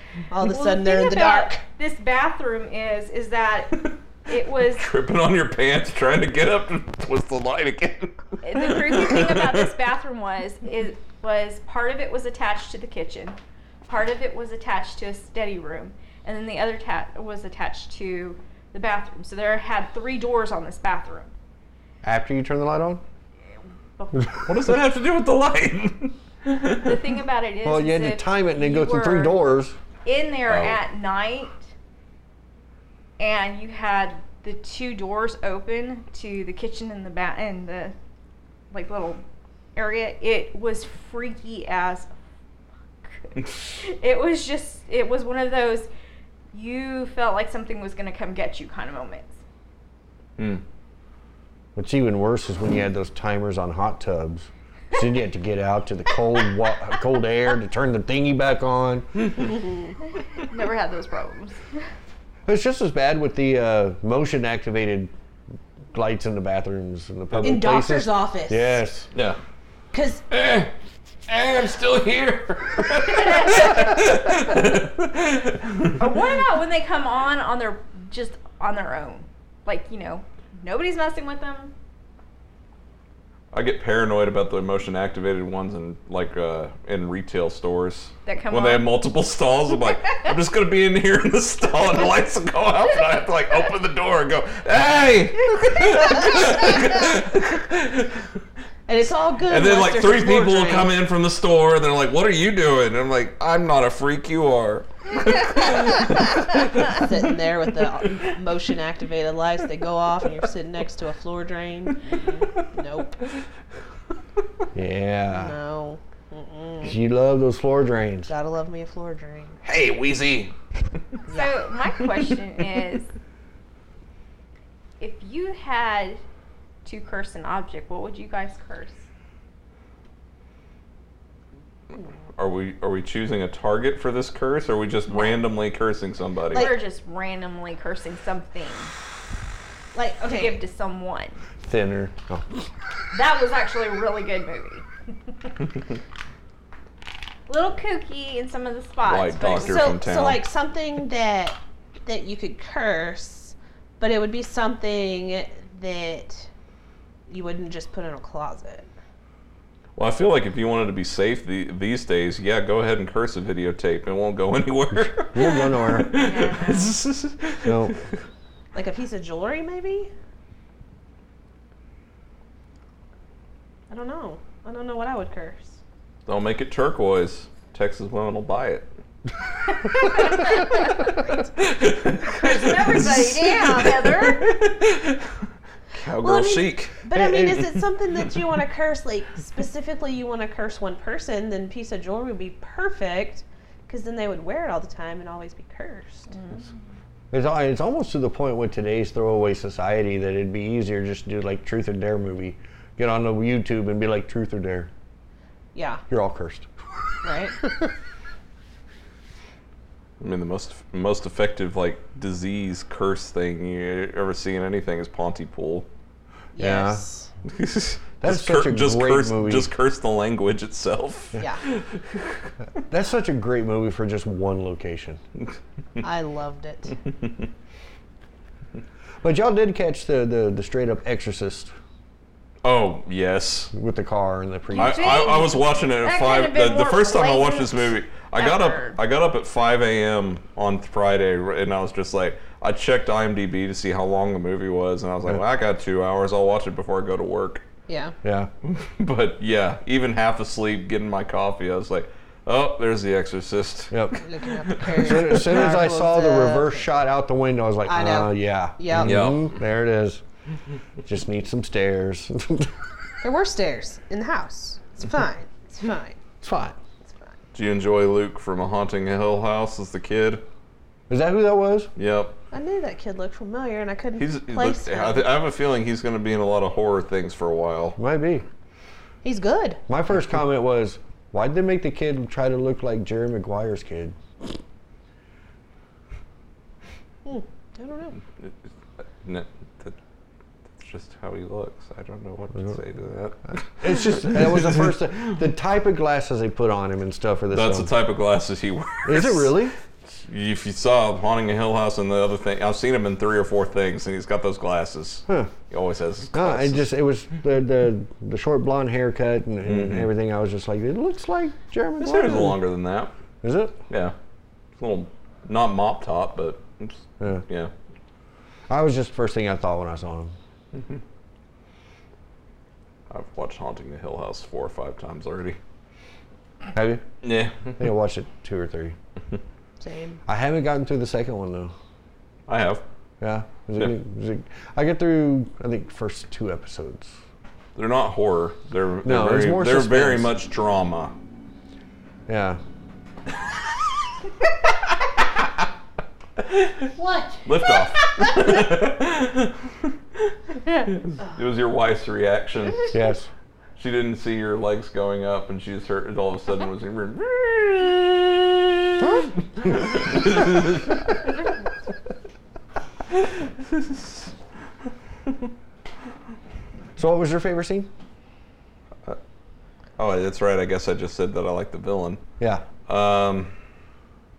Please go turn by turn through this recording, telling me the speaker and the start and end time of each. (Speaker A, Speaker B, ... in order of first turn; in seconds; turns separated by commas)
Speaker A: 0.3-1.6, Speaker B: 0.4-4.9, Speaker C: 4.6-9.7, Speaker B: 8.4-21.3, Speaker D: 22.0-23.0, Speaker B: 24.0-24.5, Speaker C: 24.4-27.0, Speaker B: 26.7-29.4, Speaker D: 27.6-29.8, Speaker B: 30.0-31.7, Speaker C: 30.5-30.8, Speaker B: 33.2-37.9, Speaker B: 38.7-39.2, Speaker B: 39.7-42.1, Speaker B: 43.0-45.9, Speaker B: 46.5-49.4, Speaker C: 50.4-50.6, Speaker D: 51.7-59.1, Speaker A: 59.4-59.9, Speaker B: 60.3-61.8, Speaker D: 62.5-65.1, Speaker D: 65.9-69.1, Speaker C: 67.3-67.6, Speaker A: 67.4-68.8, Speaker A: 69.9-70.2, Speaker C: 70.3-70.7, Speaker C: 71.3-76.0, Speaker B: 73.0-74.2, Speaker B: 76.0-81.7, Speaker C: 83.5-98.3, Speaker B: 88.2-88.8, Speaker B: 95.8-96.3, Speaker A: 98.9-100.9, Speaker C: 99.4-106.6, Speaker A: 106.8-113.3, Speaker D: 114.7-115.5, Speaker A: 115.3-117.0, Speaker D: 116.8-118.3, Speaker A: 118.3-119.6, Speaker C: 119.6-120.5, Speaker B: 121.3-123.1, Speaker B: 125.0-126.2, Speaker B: 126.8-129.0, Speaker C: 132.4-136.7, Speaker B: 135.1-135.4, Speaker A: 136.5-136.8, Speaker B: 136.5-138.9, Speaker A: 139.9-140.6, Speaker B: 140.2-141.4, Speaker D: 141.6-142.4, Speaker B: 143.1-144.8, Speaker B: 147.5-149.9, Speaker C: 149.0-150.4, Speaker A: 149.6-156.5, Speaker A: 157.3-158.9, Speaker C: 159.9-168.0, Speaker D: 165.3-166.1, Speaker B: 166.1-166.9, Speaker D: 167.6-167.9, Speaker A: 168.7-170.1, Speaker A: 173.9-175.8, Speaker C: 176.2-178.9, Speaker B: 179.7-181.1, Speaker C: 180.1-180.5, Speaker A: 180.1-180.5, Speaker A: 181.2-181.5, Speaker C: 181.6-185.3, Speaker B: 182.3-184.6, Speaker C: 185.9-187.0, Speaker A: 186.2-196.3, Speaker D: 187.1-187.7, Speaker B: 196.3-196.7, Speaker D: 197.3-204.9, Speaker A: 205.7-206.0, Speaker D: 206.1-206.7, Speaker A: 207.2-207.9, Speaker C: 210.2-215.9, Speaker A: 216.5-217.3, Speaker D: 216.6-217.1, Speaker C: 217.4-222.4, Speaker D: 218.2-219.7, Speaker D: 222.7-225.2, Speaker A: 226.0-226.9, Speaker D: 229.2-231.7, Speaker C: 232.6-233.7, Speaker D: 233.7-235.2, Speaker B: 234.7-239.0, Speaker C: 234.8-247.6, Speaker A: 247.9-248.2, Speaker D: 248.2-248.5, Speaker C: 248.6-255.6, Speaker D: 253.9-254.2, Speaker A: 254.1-256.9, Speaker D: 254.9-260.2, Speaker A: 257.9-259.3, Speaker C: 259.0-259.5, Speaker D: 261.0-262.8, Speaker A: 263.2-266.2, Speaker D: 266.4-266.8, Speaker A: 267.0-267.3, Speaker C: 267.5-270.4, Speaker D: 271.1-271.9, Speaker C: 272.0-272.3, Speaker A: 272.5-275.3, Speaker C: 274.2-277.9, Speaker D: 278.0-278.4, Speaker A: 279.2-279.8, Speaker D: 279.9-284.5, Speaker A: 287.2-288.2, Speaker C: 289.2-289.9, Speaker C: 290.8-294.9, Speaker D: 293.5-297.9, Speaker C: 297.5-299.7, Speaker D: 299.0-299.7, Speaker C: 300.2-306.8, Speaker D: 305.3-305.5, Speaker D: 306.3-312.6, Speaker C: 309.6-310.1, Speaker C: 312.0-313.1, Speaker D: 313.4-313.8, Speaker C: 313.9-314.1, Speaker C: 314.8-317.7, Speaker D: 318.7-320.3, Speaker C: 323.1-325.6, Speaker D: 326.7-327.0, Speaker C: 327.2-327.8, Speaker D: 327.8-328.9, Speaker A: 329.8-330.2, Speaker D: 330.3-331.7, Speaker C: 332.5-332.8, Speaker D: 333.2-337.2, Speaker C: 337.8-341.1, Speaker D: 339.0-340.3, Speaker D: 342.3-342.6, Speaker C: 346.4-346.9, Speaker A: 347.0-348.6, Speaker C: 347.4-352.9, Speaker D: 352.9-353.3, Speaker C: 353.8-361.0, Speaker C: 363.6-364.3, Speaker D: 367.0-367.9, Speaker C: 370.0-372.2, Speaker D: 372.4-372.6, Speaker C: 372.9-373.5